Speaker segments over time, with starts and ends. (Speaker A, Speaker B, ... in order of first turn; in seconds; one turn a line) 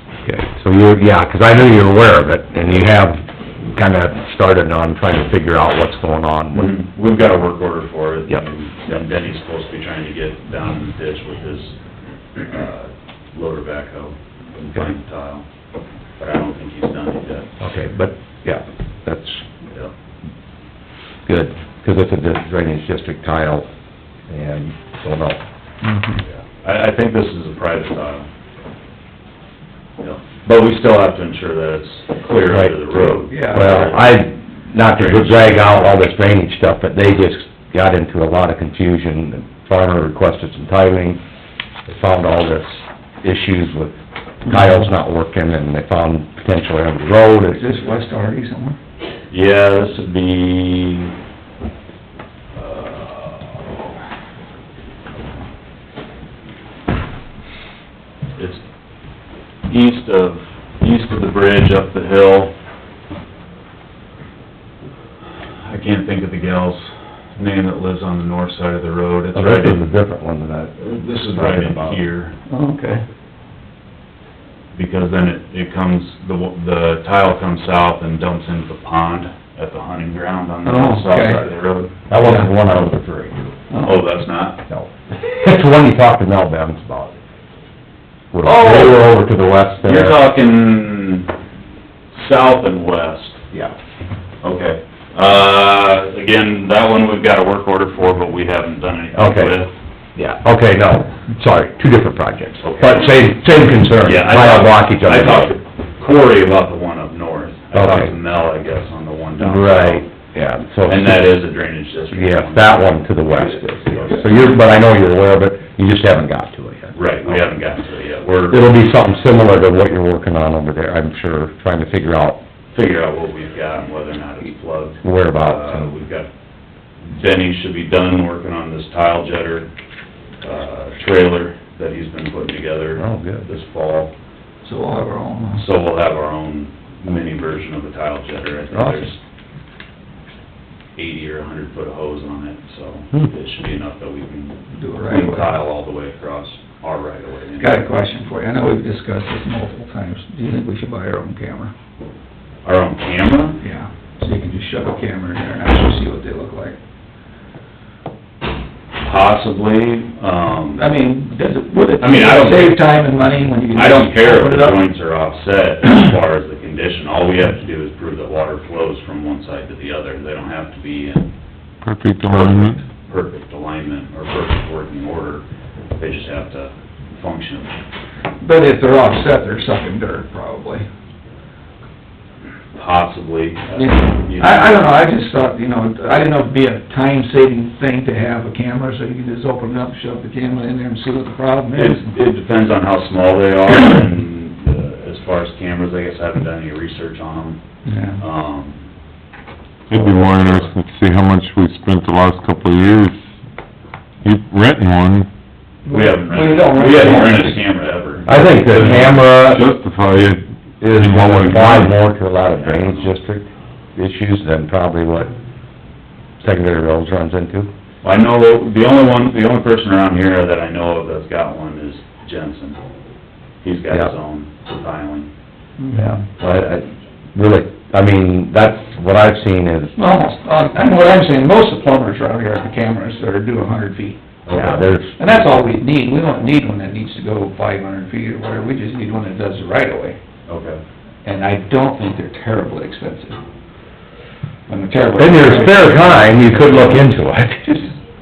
Speaker A: 0.2-6.7
Speaker B: 6.5-11.8
Speaker A: 8.3-9.0
Speaker B: 12.3-15.4
Speaker B: 16.2-17.5
Speaker A: 17.6-19.5
Speaker A: 21.2-23.7
Speaker A: 24.3-25.4
Speaker C: 25.8-26.2
Speaker B: 26.2-28.3
Speaker B: 30.0-34.3
Speaker A: 32.2-41.2
Speaker C: 33.3-33.7
Speaker B: 34.9-36.0
Speaker A: 41.9-47.6
Speaker C: 47.5-48.8
Speaker B: 49.3-51.1
Speaker B: 52.5-53.9
Speaker B: 58.4-58.6
Speaker B: 59.7-62.5
Speaker B: 65.6-69.9
Speaker A: 69.3-72.0
Speaker B: 71.3-72.4
Speaker C: 72.5-73.0
Speaker B: 74.7-81.9
Speaker C: 80.6-81.5
Speaker A: 82.1-83.5
Speaker C: 83.7-84.0
Speaker B: 83.8-84.6
Speaker A: 84.7-87.2
Speaker A: 88.3-90.2
Speaker B: 88.4-89.0
Speaker B: 89.8-91.3
Speaker B: 92.1-93.4
Speaker B: 94.4-99.7
Speaker A: 99.1-99.6
Speaker A: 100.2-105.6
Speaker B: 102.6-103.2
Speaker B: 104.0-110.1
Speaker A: 107.7-108.1
Speaker A: 109.4-111.4
Speaker B: 110.8-114.5
Speaker A: 112.1-117.5
Speaker B: 116.9-118.6
Speaker A: 118.5-122.4
Speaker B: 122.7-126.3
Speaker A: 125.0-125.9
Speaker B: 127.1-129.7
Speaker B: 130.4-134.1
Speaker A: 133.0-133.5
Speaker C: 134.6-135.6
Speaker B: 135.5-139.2
Speaker A: 138.7-139.1
Speaker B: 140.9-147.8
Speaker C: 144.7-145.5
Speaker C: 147.6-151.7
Speaker B: 152.6-153.6
Speaker C: 153.6-156.8
Speaker B: 159.0-160.9
Speaker C: 160.8-164.8
Speaker B: 162.0-162.8
Speaker B: 163.7-171.3
Speaker D: 171.8-172.8
Speaker B: 172.2-175.4
Speaker B: 176.0-177.7
Speaker C: 178.4-180.8
Speaker B: 182.7-184.9
Speaker C: 183.7-192.1
Speaker B: 191.7-197.6
Speaker C: 197.8-198.2
Speaker B: 198.2-198.8
Speaker D: 199.9-203.2
Speaker B: 199.9-200.7
Speaker D: 204.2-205.3
Speaker C: 205.8-207.6
Speaker B: 205.9-208.9
Speaker A: 208.3-209.7
Speaker D: 208.6-212.0
Speaker A: 210.8-215.3
Speaker B: 212.5-213.1
Speaker A: 216.4-217.7
Speaker B: 218.0-222.8
Speaker B: 223.6-225.3
Speaker C: 225.8-226.2
Speaker A: 225.9-229.9
Speaker B: 226.4-226.7
Speaker C: 229.9-240.2
Speaker B: 234.5-234.8
Speaker A: 234.5-235.7
Speaker B: 240.5-240.8
Speaker C: 241.2-243.4
Speaker C: 244.7-247.1
Speaker A: 245.1-247.8
Speaker C: 247.7-247.9